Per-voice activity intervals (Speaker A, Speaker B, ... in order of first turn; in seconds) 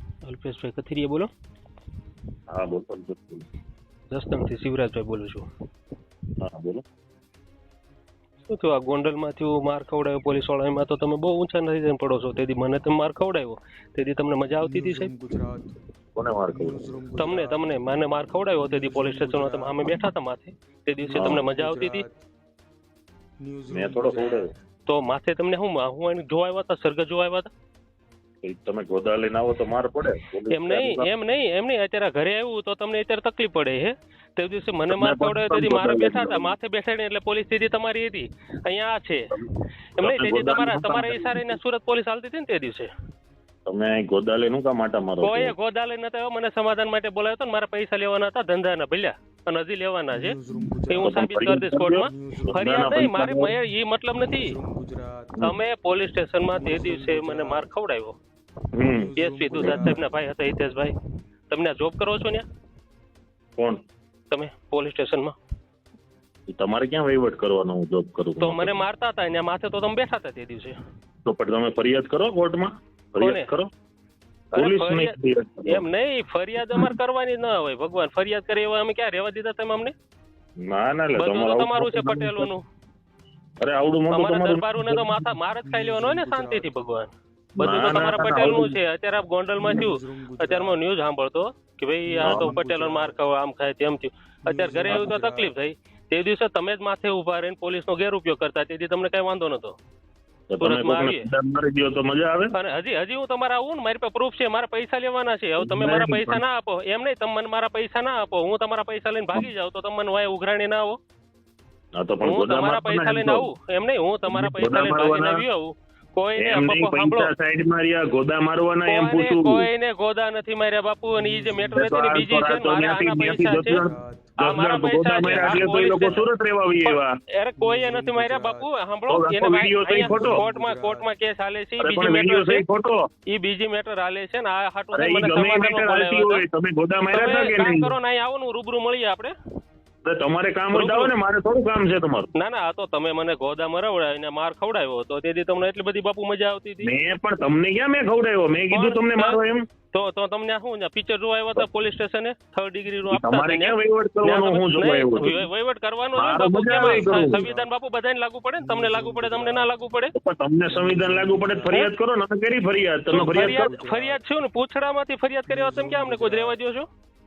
Speaker A: 0.2-1.3, 4.1-5.5, 8.5-15.1, 17.2-22.0, 24.9-27.5, 30.5-39.4, 40.0-42.9, 45.2-50.4, 50.9-54.5, 55.4-58.2, 59.2-60.9, 61.5-62.4, 64.3-65.3, 68.4-70.8, 73.2-73.5, 74.5-79.9, 81.2-82.6, 84.1-99.8, 100.6-101.3, 102.5-111.0, 112.2-117.3, 118.8-123.8, 124.4-126.2, 126.8-132.6, 133.3-136.4, 137.1-139.3, 140.7-141.1, 142.3-146.9, 148.7-149.4, 149.9-160.1, 163.1-166.9
Speaker B: 2.5-3.4, 6.4-6.8, 16.1-16.9, 21.1-21.4, 23.7-24.5, 28.4-31.1, 34.9-36.5, 40.0-41.6, 43.6-45.5, 50.9-53.5, 58.7-60.0, 63.5-63.8, 66.5-68.8, 71.2-73.7, 74.5-75.8, 80.6-82.5, 83.6-85.3, 87.6-88.8, 92.2-92.5, 100.5-102.5, 105.6-106.4, 111.9-113.5, 114.3-115.4, 116.4-119.7, 121.7-127.2, 129.1-130.4, 131.8-133.1, 134.9-137.9, 140.0-142.3, 146.8-149.6, 153.1-155.5, 156.2-157.4, 160.1-163.7
Speaker C: 14.6-15.8, 16.5-20.1, 21.0-22.2, 23.4-24.5, 50.1-53.2, 54.1-55.5, 56.5-57.7, 58.9-60.0, 85.6-87.0, 89.6-90.8, 92.0-93.2, 94.5-95.5, 121.1-122.0, 123.7-124.4, 125.2-126.3, 127.6-128.8, 129.9-131.1, 156.8-157.7, 158.6-159.8, 160.7-161.9, 163.1-164.2, 165.5-166.6